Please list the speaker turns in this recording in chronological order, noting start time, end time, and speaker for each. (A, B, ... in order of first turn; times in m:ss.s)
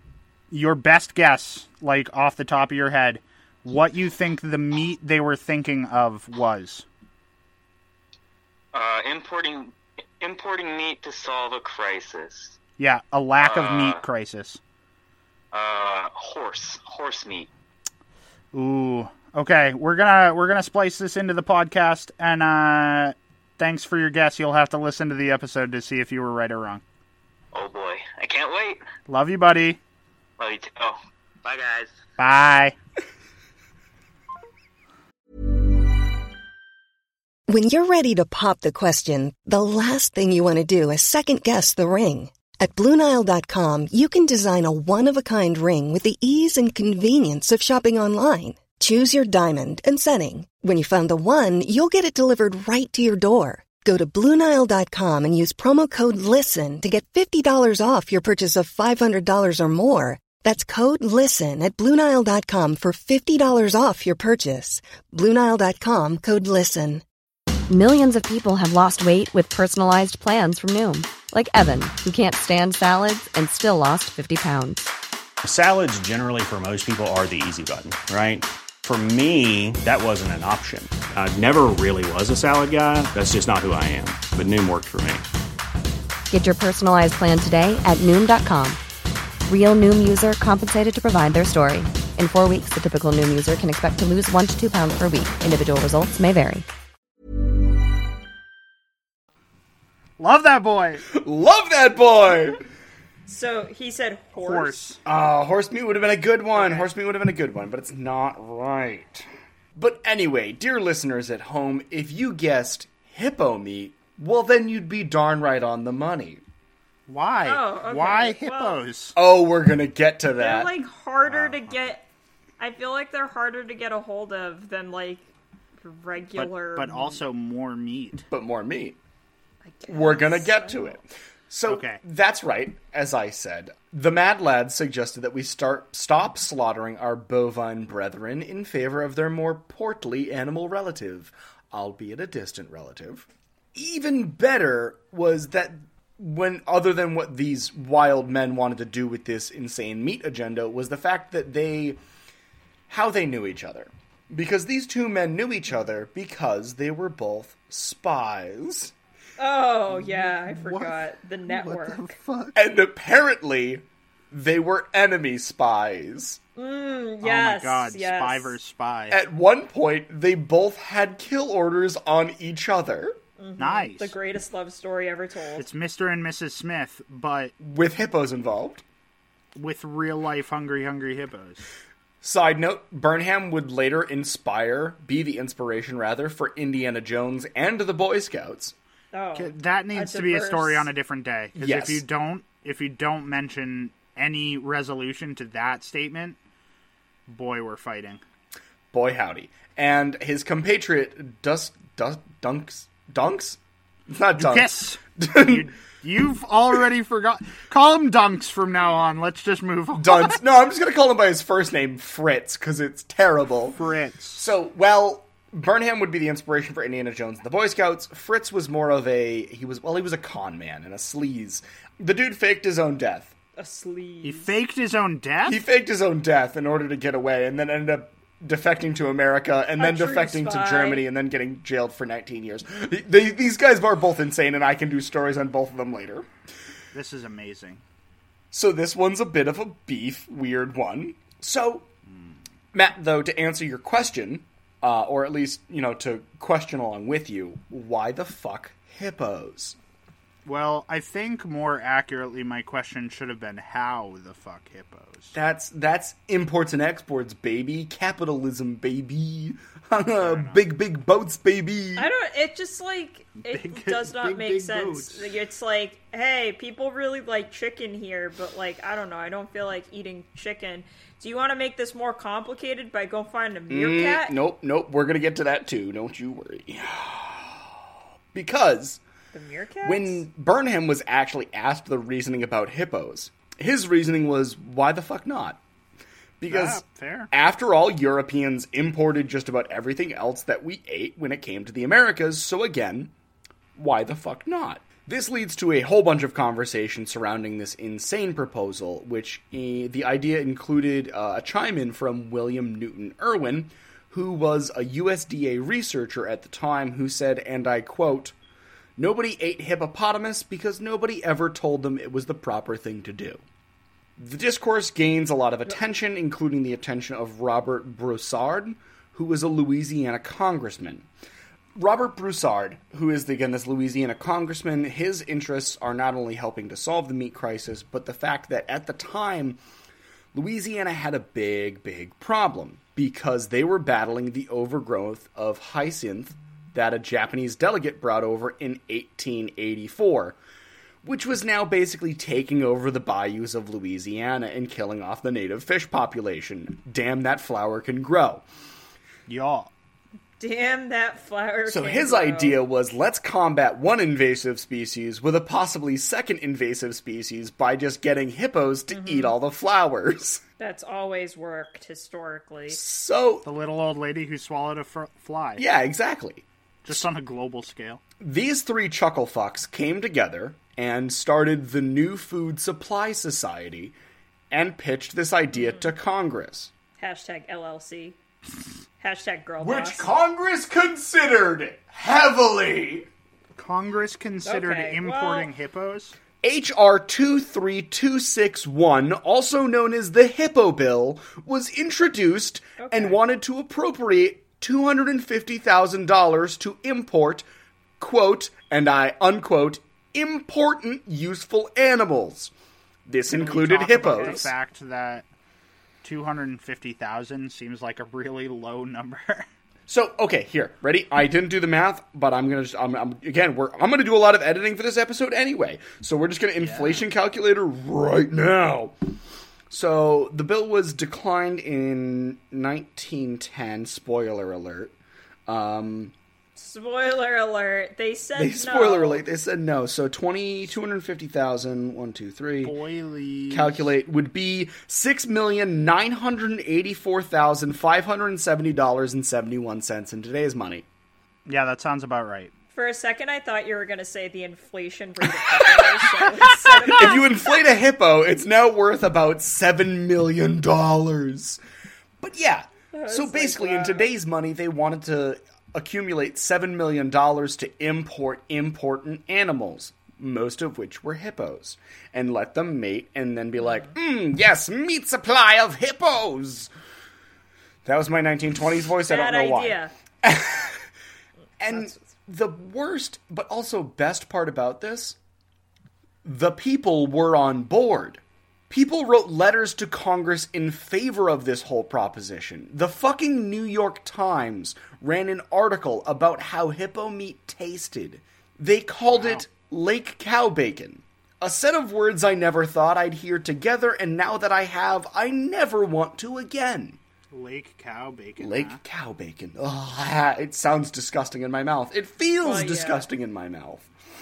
0:00.5-0:06.9 A
0:08.7-0:12.6 B
0:12.8-0:14.6 A
0:13.4-0:14.0 B
0:15.5-0:17.5 B
0:18.5-0:26.8 A
0:27.5-0:28.8 B
0:29.1-0:29.8 A
0:30.4-0:32.0 B
0:32.2-0:32.8 A
0:37.5-1:07.0 C
1:07.7-1:14.9 D
1:15.4-1:25.2 E
1:26.3-1:28.8 D
1:29.5-1:36.7 D
1:40.2-1:41.0 A
1:41.1-1:42.6 F
1:43.3-1:44.8 G
1:44.4-1:45.0 A
1:45.0-1:56.4 F
1:46.6-1:46.8 G
1:57.1-1:59.2 A
1:57.4-1:58.8 G
1:59.2-2:00.7 F
2:00.4-2:02.0 G
2:01.3-2:01.8 A
2:02.6-2:05.2 G
2:05.8-2:07.2 G
2:06.4-2:08.3 A
2:08.3-2:09.0 F
2:09.7-2:11.0 G
2:09.9-2:32.0 F
2:11.7-2:12.0 A
2:32.9-2:38.9 F
2:39.4-2:42.2 G
2:39.9-2:42.6 A
2:42.6-2:46.4 F
2:46.6-2:48.6 G
2:47.2-2:49.2 A
2:49.1-2:53.2 F
2:53.4-2:55.7 G
2:53.6-2:54.2 A
2:55.6-2:57.5 A
2:57.6-2:58.8 F
2:59.6-3:01.7 A
3:02.2-3:08.8 F
3:09.1-3:10.9 G
3:09.4-3:16.4 A
3:11.6-3:12.0 F
3:17.3-3:18.2 A
3:18.9-3:25.7 F
3:24.4-3:30.4 A
3:30.0-3:33.8 F
3:33.8-3:34.5 A
3:34.4-3:43.3 F
3:43.6-3:44.6 G
3:44.2-3:45.6 A
3:45.4-3:56.3 F
3:49.8-3:51.1 G
3:56.9-3:57.8 A
3:58.5-4:01.9 F
4:02.7-4:09.8 F
4:10.4-4:15.4 A
4:15.3-4:22.1 F
4:20.2-4:20.6 A
4:22.0-4:34.4 G
4:23.4-4:25.3 A
4:33.7-4:39.0 F
4:39.3-4:40.2 G
4:39.8-4:45.6 F
4:46.4-4:53.1 F
4:46.5-4:47.3 A
4:53.8-5:08.4 F
5:09.0-5:13.4 F
5:14.2-5:21.1 F
5:21.8-5:29.6 F
5:30.3-5:40.4 F
5:41.0-5:48.4 F
5:49.3-5:49.7 A
5:50.4-5:52.6 G
5:51.7-6:00.4 F
5:58.9-5:59.4 G
6:00.6-6:02.8 G
6:02.7-6:03.5 F
6:03.4-6:05.6 A
6:05.6-6:07.0 F
6:06.8-6:08.0 A
6:08.2-6:14.0 F
6:14.5-6:16.7 F
6:15.6-6:15.9 G
6:17.0-6:18.2 G
6:19.0-6:20.1 G
6:19.6-6:23.1 F
6:23.6-6:26.2 A
6:24.4-6:25.5 G
6:26.4-6:37.5 F
6:32.8-6:33.2 G
6:38.0-6:42.5 F
6:43.1-6:44.5 F
6:43.3-6:45.3 A
6:44.0-6:44.5 G
6:46.0-6:49.5 A
6:49.9-6:59.0 F
6:56.6-6:57.0 A
6:59.7-7:05.0 F
7:05.5-7:06.1 F
7:06.6-7:09.2 G
7:08.4-7:12.8 F
7:12.6-7:13.9 A
7:13.5-7:20.9 F
7:21.5-7:22.5 A
7:22.7-7:27.4 G
7:26.7-7:31.6 F
7:32.2-7:46.7 F
7:32.9-7:34.1 G
7:47.8-7:50.9 F
7:49.1-7:49.9 G
7:51.6-7:55.2 F
7:51.7-7:52.0 G
7:56.2-8:17.0 F
8:09.1-8:09.5 A
8:17.3-8:18.8 A
8:18.4-8:23.9 F
8:22.4-8:23.1 G